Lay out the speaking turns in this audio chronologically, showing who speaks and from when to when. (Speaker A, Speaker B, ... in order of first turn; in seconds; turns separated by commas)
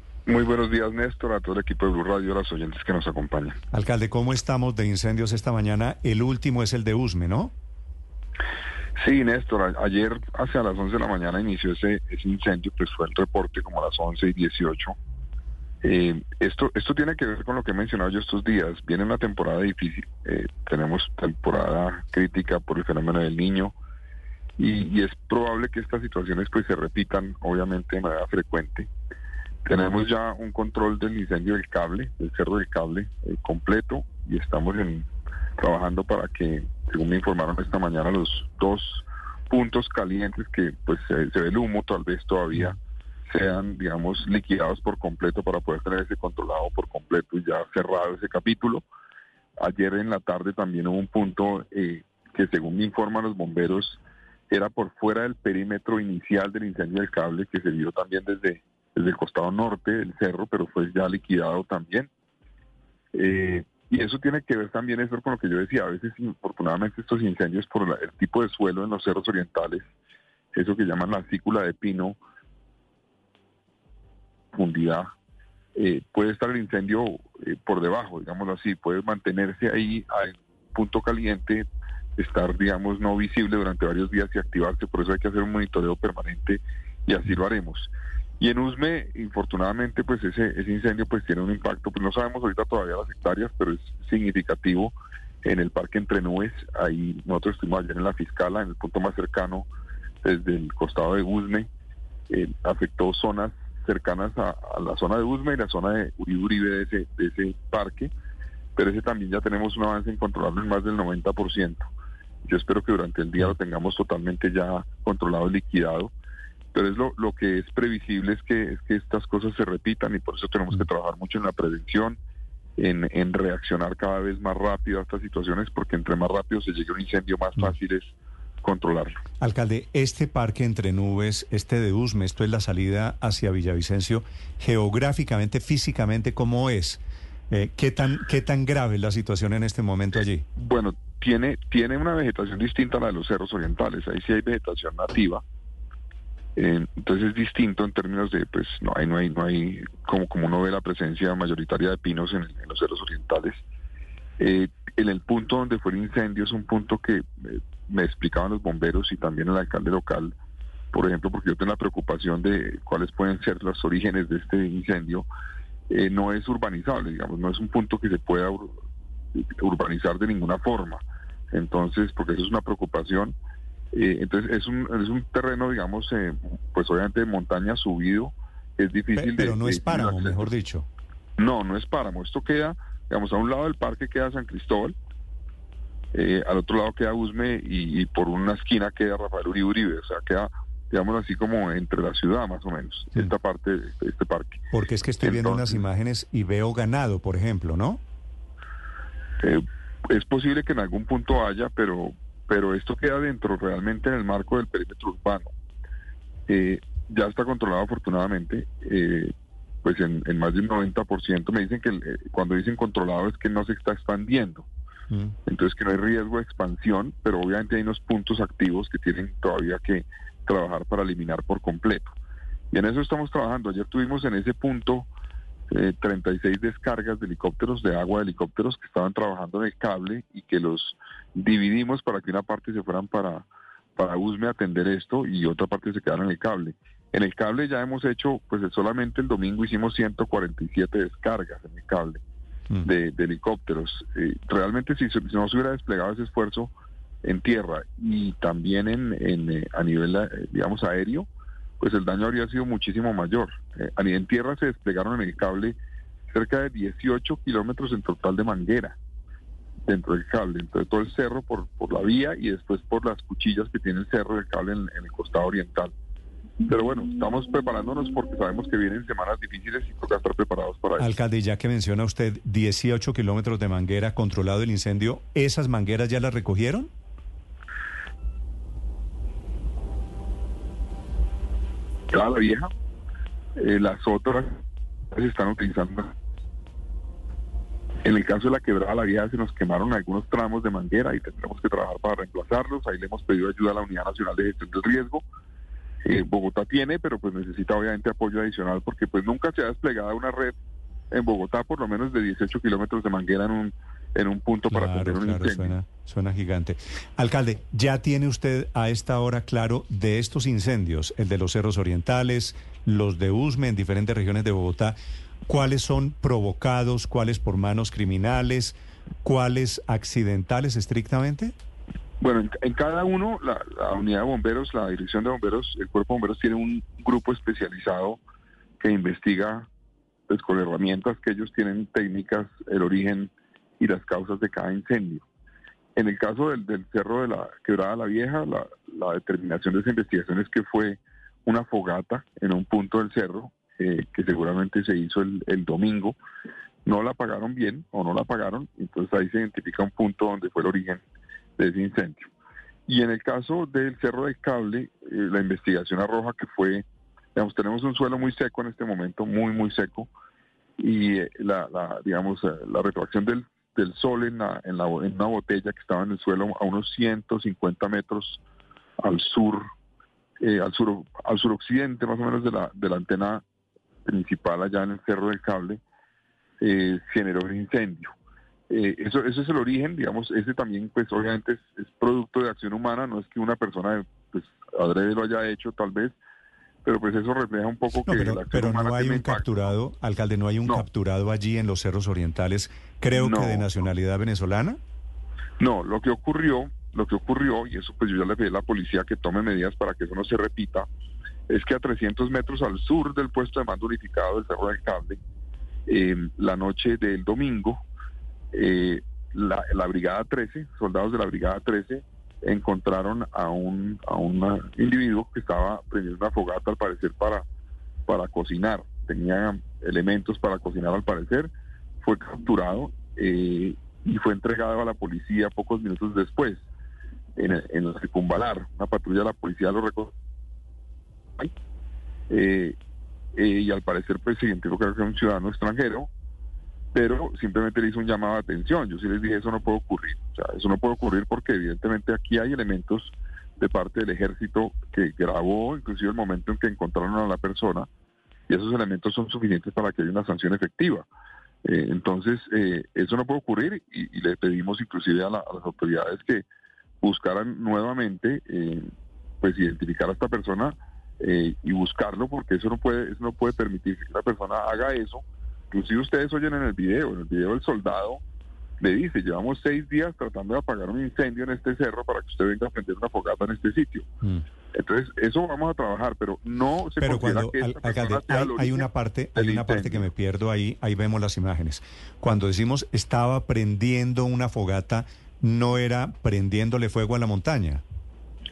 Speaker A: 0.3-3.6, Speaker B: 3.7-7.5, Speaker A: 9.0-15.0, Speaker A: 15.8-23.7, Speaker A: 24.6-28.9, Speaker A: 29.6-42.8, Speaker A: 43.3-48.8, Speaker A: 49.6-62.1, Speaker A: 63.1-69.9, Speaker A: 70.5-72.2, Speaker A: 74.5-75.1, Speaker A: 75.8-81.7, Speaker A: 82.2-99.7, Speaker A: 100.2-101.7, Speaker A: 102.3-108.1, Speaker A: 108.8-111.8, Speaker A: 112.5-116.1, Speaker A: 116.7-122.2, Speaker A: 122.8-129.2, Speaker B: 129.4-140.5, Speaker A: 140.6-145.4, Speaker A: 146.6-153.6, Speaker A: 154.4-160.3, Speaker A: 160.9-165.3, Speaker A: 165.9-168.8, Speaker A: 169.4-173.4, Speaker A: 173.9-180.5, Speaker B: 179.2-180.9, Speaker A: 181.4-184.9, Speaker A: 186.1-194.6, Speaker B: 194.7-198.0, Speaker A: 195.2-195.8, Speaker A: 199.4-205.5, Speaker A: 206.5-209.3, Speaker A: 209.8-214.7, Speaker B: 215.1-215.4, Speaker A: 215.5-222.1, Speaker A: 222.7-225.1, Speaker A: 225.7-242.2, Speaker A: 242.8-246.7, Speaker A: 247.2-251.3, Speaker A: 251.8-255.8, Speaker A: 256.3-259.0, Speaker A: 259.9-265.9, Speaker A: 266.7-271.1, Speaker B: 271.0-276.9, Speaker A: 282.1-282.7, Speaker A: 283.6-284.6, Speaker A: 285.1-286.1, Speaker A: 288.0-295.2, Speaker A: 296.0-300.6, Speaker A: 301.1-305.7, Speaker B: 304.7-315.0, Speaker B: 315.5-321.5, Speaker A: 322.2-328.2, Speaker A: 328.8-329.7, Speaker A: 330.3-335.2, Speaker A: 336.0-346.2, Speaker A: 346.9-351.0, Speaker A: 351.6-352.3, Speaker A: 352.9-360.1, Speaker A: 360.8-368.4, Speaker A: 369.0-369.7, Speaker A: 370.4-373.4, Speaker A: 374.1-375.8, Speaker A: 376.6-378.1, Speaker A: 378.7-386.1, Speaker A: 386.9-389.5, Speaker B: 388.1-394.8, Speaker A: 393.2-393.7, Speaker A: 395.6-400.9, Speaker A: 401.5-405.2, Speaker A: 405.9-407.8, Speaker A: 408.5-417.4, Speaker A: 418.1-421.5, Speaker A: 422.0-426.6, Speaker A: 427.4-430.1, Speaker A: 432.3-432.8, Speaker A: 433.4-436.1, Speaker A: 436.9-447.9, Speaker A: 448.5-451.1, Speaker A: 451.6-456.4, Speaker A: 457.0-458.9, Speaker A: 459.4-468.2, Speaker A: 468.8-474.1, Speaker A: 474.7-480.1, Speaker B: 477.0-487.8